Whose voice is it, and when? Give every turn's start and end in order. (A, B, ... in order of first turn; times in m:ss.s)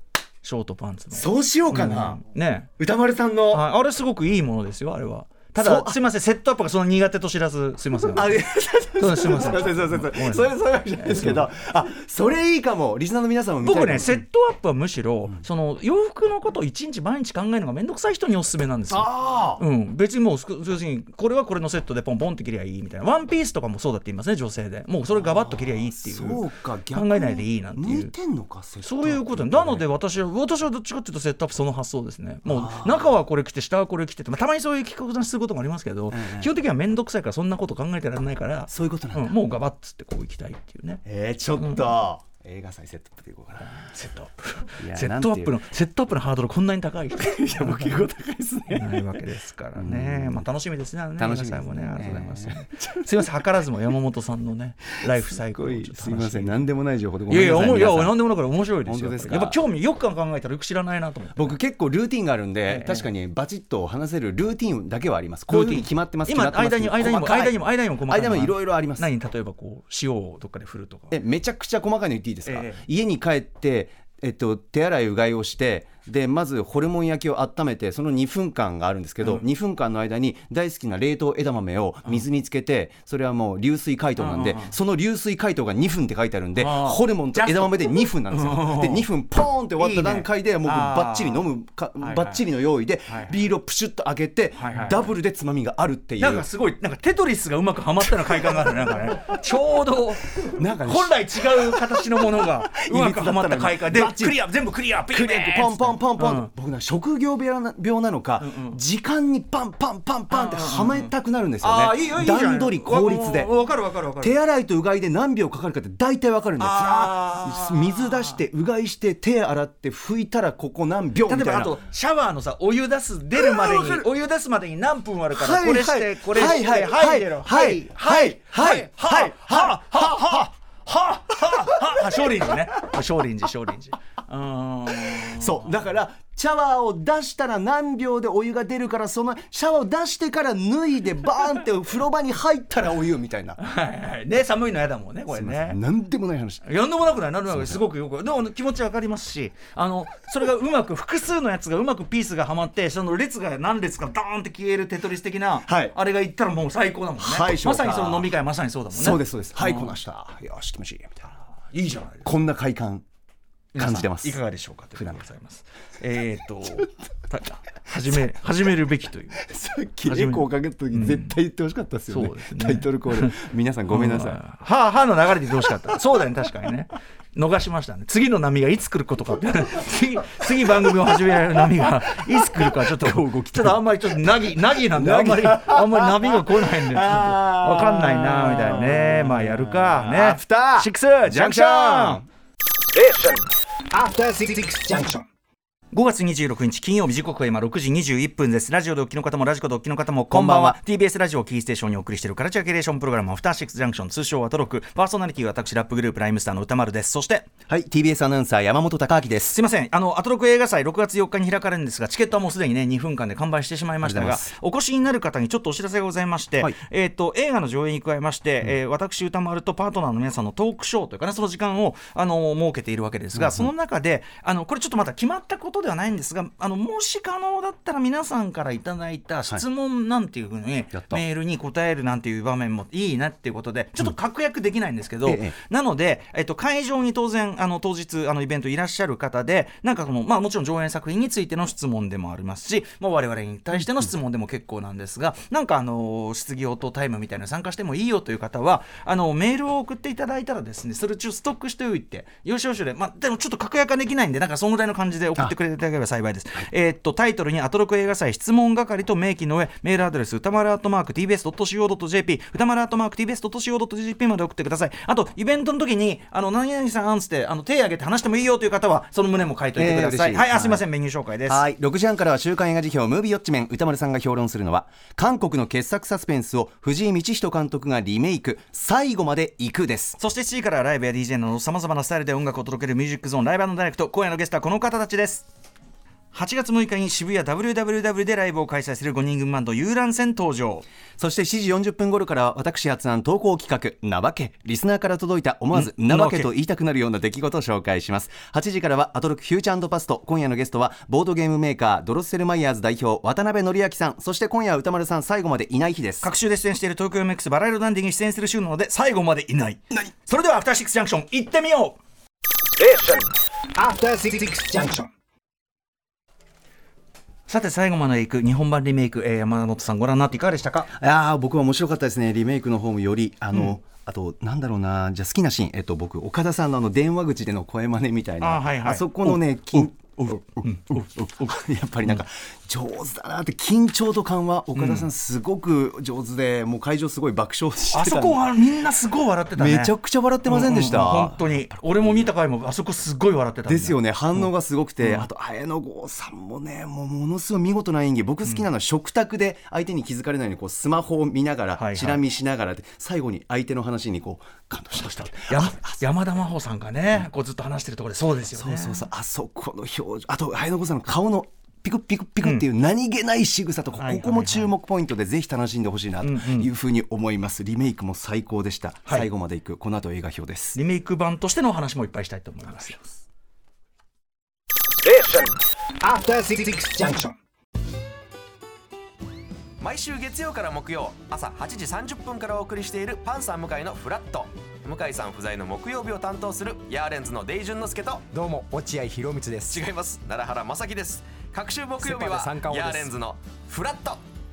0:00.4-0:02.7 A
0:01.1-0:02.2 B
0:02.8-0:03.6 B
0:03.5-0:08.4 A
0:05.6-0:06.0 B
0:08.0-0:14.2 B
0:09.0-0:11.5 A
0:13.6-0:28.1 A
0:18.9-0:19.6 B
0:25.1-0:29.9 B
0:28.8-0:41.0 A
0:32.4-0:33.1 B
0:36.1-0:36.5 B
0:38.7-0:39.4 B
0:41.0-0:43.9 B
0:41.6-0:41.9 A
0:43.6-0:48.1 A
0:44.8-0:45.6 B
0:47.2-0:49.2 B
0:48.7-0:56.7 A
0:49.8-0:50.5 B
0:51.2-0:53.5 B
0:55.2-0:58.2 B
0:57.3-1:01.6 A
0:58.8-0:59.6 B
1:01.4-1:09.1 B
1:02.7-1:03.1 A
1:05.5-1:11.2 A
1:11.1-1:36.5 B
1:12.5-1:12.8 A
1:24.2-1:24.7 A
1:26.6-1:29.1 A
1:29.8-1:31.5 A
1:32.0-1:32.4 A
1:33.1-1:33.3 A
1:34.6-1:35.0 A
1:36.2-1:46.5 A
1:38.1-1:39.2 B
1:40.4-1:44.4 B
1:45.1-1:53.5 B
1:48.4-1:48.8 A
1:50.3-1:54.4 A
1:54.2-2:01.8 B
1:56.6-1:58.4 A
2:01.2-2:15.7 A
2:03.4-2:04.1 B
2:05.3-2:10.5 B
2:11.5-2:12.5 B
2:15.0-2:23.6 B
2:23.6-2:25.8 A
2:25.3-2:26.6 B
2:26.6-2:40.0 A
2:27.5-2:27.8 B
2:35.7-2:36.0 B
2:37.2-2:38.3 B
2:38.9-2:41.3 B
2:41.7-2:42.3 A
2:42.2-2:43.0 B
2:43.8-2:49.4 A
2:43.8-2:44.4 B
2:45.0-2:45.2 B
2:49.4-2:54.4 B
2:50.0-2:51.4 A
2:52.1-3:12.2 A
3:02.5-3:03.8 B
3:04.9-3:12.3 B
3:13.0-3:13.4 C
3:13.9-3:15.2 C
3:15.9-3:27.5 A
3:20.3-3:20.8 B
3:27.7-3:29.6 B
3:29.5-4:31.6 A
3:34.0-3:34.5 B
3:43.3-3:43.7 B
3:50.9-3:51.2 B
3:55.2-3:55.6 B
4:29.8-4:30.8 B
4:31.5-4:40.2 B
4:40.2-4:45.5 A
4:46.3-4:50.8 A
4:51.2-5:06.3 B
4:55.7-4:56.5 A
5:06.2-5:12.0 A
5:12.8-5:15.1 C
5:17.5-5:20.9 A
5:20.9-5:38.8 B
5:28.4-5:31.6 A
5:34.8-5:35.1 A
5:37.9-5:39.9 A
5:39.5-5:42.3 B
5:40.4-5:44.5 A
5:43.7-5:56.0 B
5:45.0-5:45.3 A
5:51.8-5:52.2 A
5:55.0-5:59.0 A
5:58.5-6:10.8 B
6:04.0-6:04.7 A
6:06.2-6:06.7 A
6:10.8-6:13.2 A
6:15.1-6:17.4 C
6:19.8-6:28.3 D
6:28.3-6:29.9 E
6:29.7-6:34.2 D
6:32.0-6:33.1 E